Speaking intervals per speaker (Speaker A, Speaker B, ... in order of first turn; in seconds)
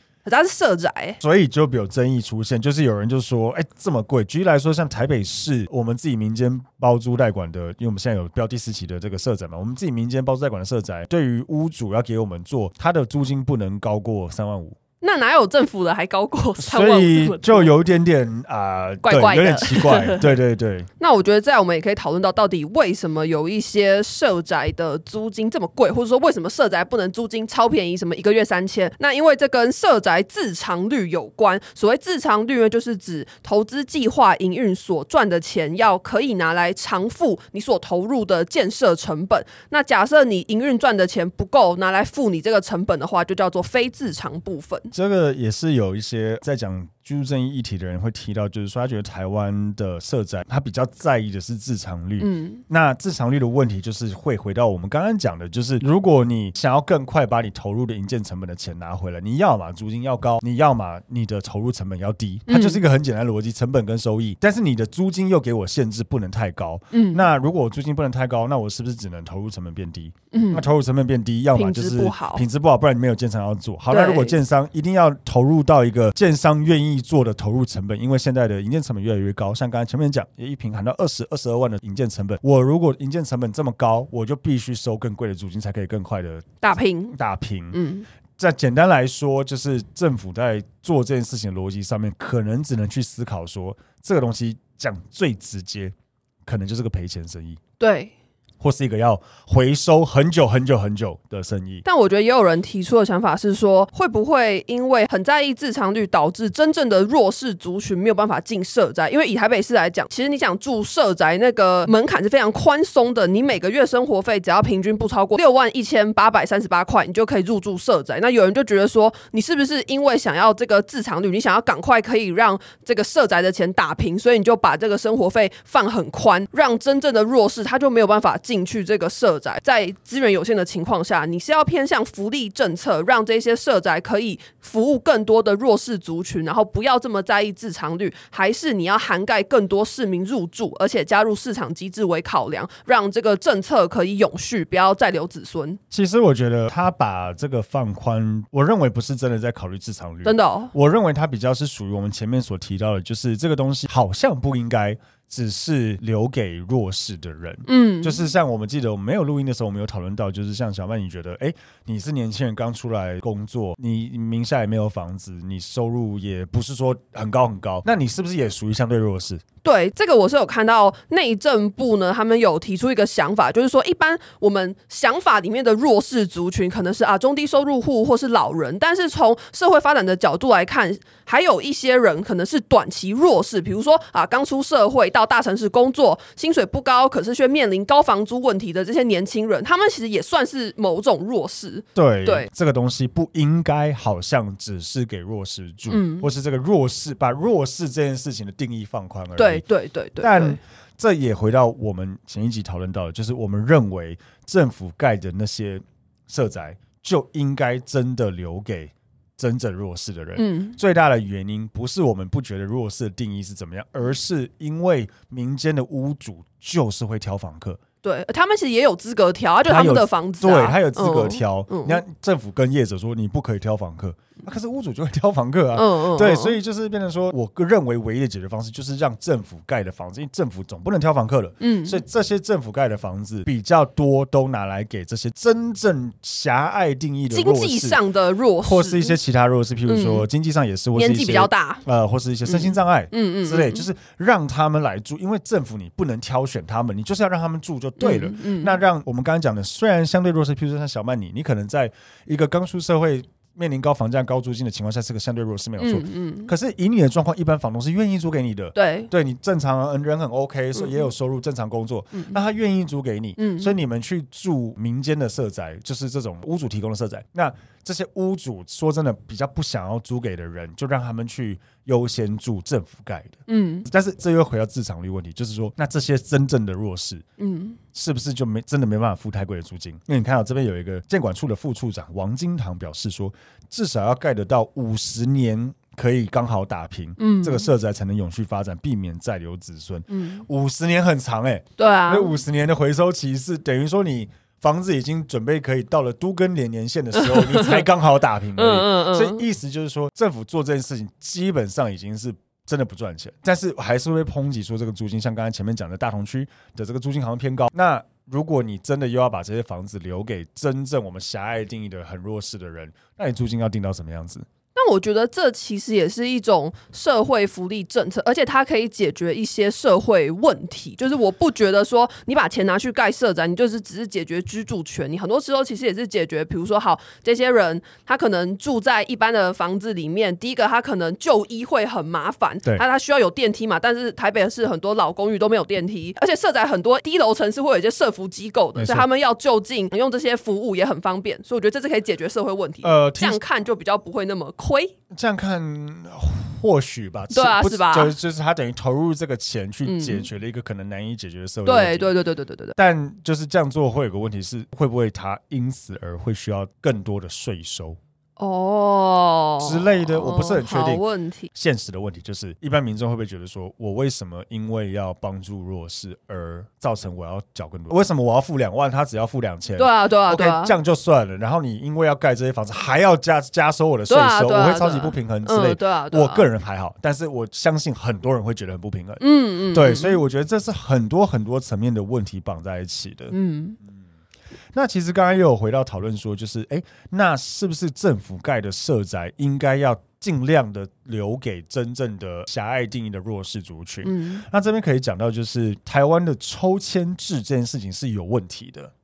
Speaker A: 0.2-1.2, 15.0-17.7, 19.0-20.3, 21.0-44.9, 52.2-52.6, 62.5-62.8, 66.9-67.2, 70.3-70.7, 71.5-72.4, 73.9-74.4, 86.6-87.2, 87.7-88.1, 97.8-98.1, 101.8-145.8, 150.2-150.7, 157.7-158.2, 169.6-192.5, 195.9-196.3, 199.4-200.6, 210.4-210.8, 218.0-222.0, 225.8-226.6, 231.6-232.0, 237.3-239.2, 239.9-240.3, 240.9-241.8, 242.5-243.9, 248.0-248.8, 255.8-256.5, 258.8-259.1, 260.8-261.0, 263.4-263.7, 273.5-273.9, 277.4-277.8, 287.2-287.7, 290.1-290.4, 291.8-292.4, 297.2-297.8, 298.6-299.4, 314.8-344.9, 347.3-348.1, 349.9-350.3, 351.6-352.8, 358.4-361.5, 369.8-370.7, 374.1-376.5, 379.2-380.2, 383.3-383.8, 394.0-394.4
Speaker B: 1.2-14.8, 16.6-20.9, 44.9-86.6, 87.1-87.8, 88.4-95.9, 96.5-97.6, 98.6-101.8, 145.9-169.4, 191.9-199.6, 200.2-217.8, 219.7-238.0, 238.6-277.2, 277.9-314.5, 338.8-339.1, 342.8-343.4, 345.1-352.1, 352.8-358.0, 359.6-361.0, 361.5-383.4, 384.7-398.9